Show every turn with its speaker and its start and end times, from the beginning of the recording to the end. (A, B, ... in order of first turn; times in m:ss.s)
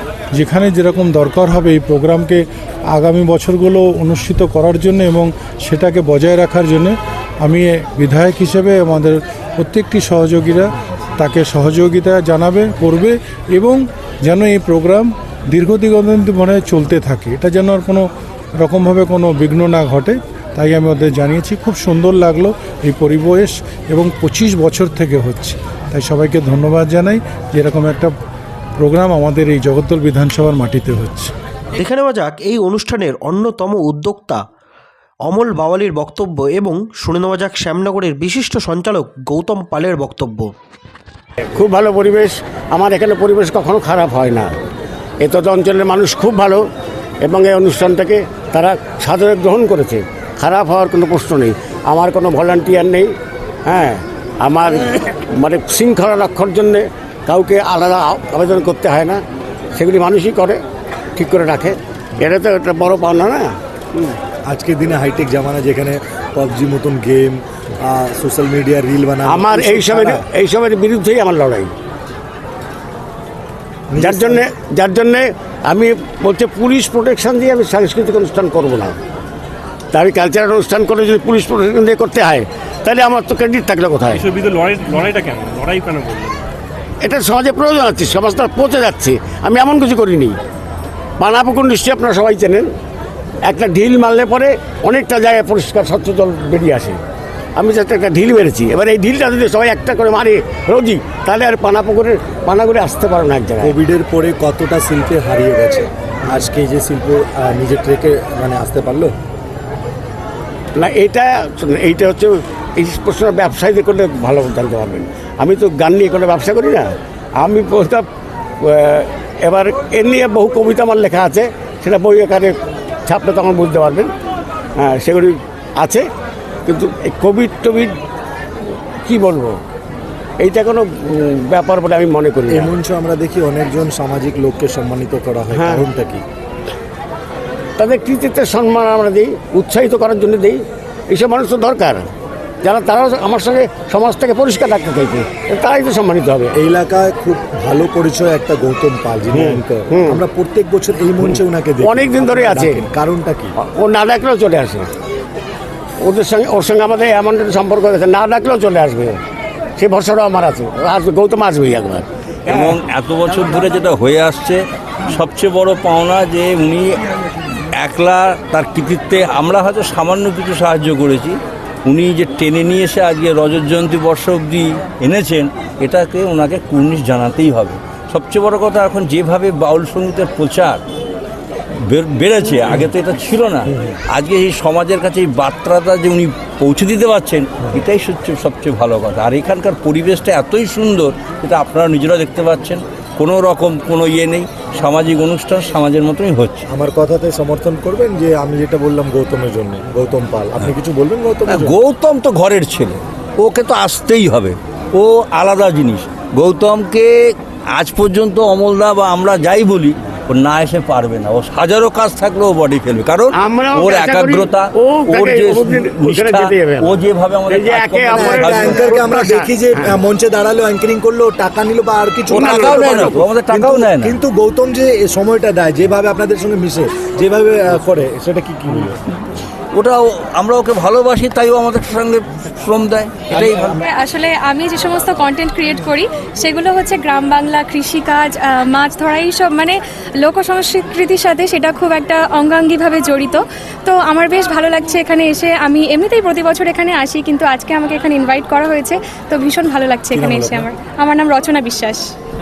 0:00.4-0:18.0 A
0:18.6-0:28.1 A
0:28.8-0:31.3 A
0:31.8-0:34.4 B
0:35.3-0:40.5 B
0:41.6-0:44.5 C
0:45.2-0:46.6 C
0:47.2-0:53.1 C
0:53.7-0:59.2 C
0:59.8-1:00.6 C
1:01.2-1:04.2 C
1:04.5-1:10.2 D
1:09.2-1:11.7 C
1:13.9-1:14.4 D
1:14.0-1:19.0 C
1:19.9-1:24.2 C
1:24.3-1:26.3 E
1:27.0-1:30.4 C
1:31.2-1:32.7 C
1:33.5-1:37.0 C
1:37.6-1:43.7 C
1:43.6-1:49.1 D
1:50.8-1:58.0 C
1:58.7-2:02.5 C
2:03.1-2:04.1 C
2:04.8-2:06.0 C
2:06.7-2:07.9 C
2:09.1-2:09.6 C
2:10.4-2:12.7 C
2:12.5-2:16.2 D
2:15.5-2:15.8 C
2:17.8-2:22.1 C
2:22.6-2:26.5 C
2:26.6-2:33.5 D
2:29.3-2:30.2 C
2:31.2-2:32.8 C
2:33.6-2:34.9 C
2:36.0-2:39.2 C
2:39.8-2:42.7 C
2:42.5-2:47.0 F
2:47.8-2:51.4 F
2:51.9-3:00.8 F
3:01.9-3:16.6 F
3:16.7-3:21.8 D
3:21.5-3:27.1 F
3:27.8-3:39.2 F
3:33.4-3:37.0 C
3:37.5-3:40.0 C
3:38.2-3:49.0 D
3:42.3-3:43.2 C
3:42.4-3:44.2 F
3:49.7-3:53.8 F
3:53.4-4:12.1 G
4:10.1-4:10.7 D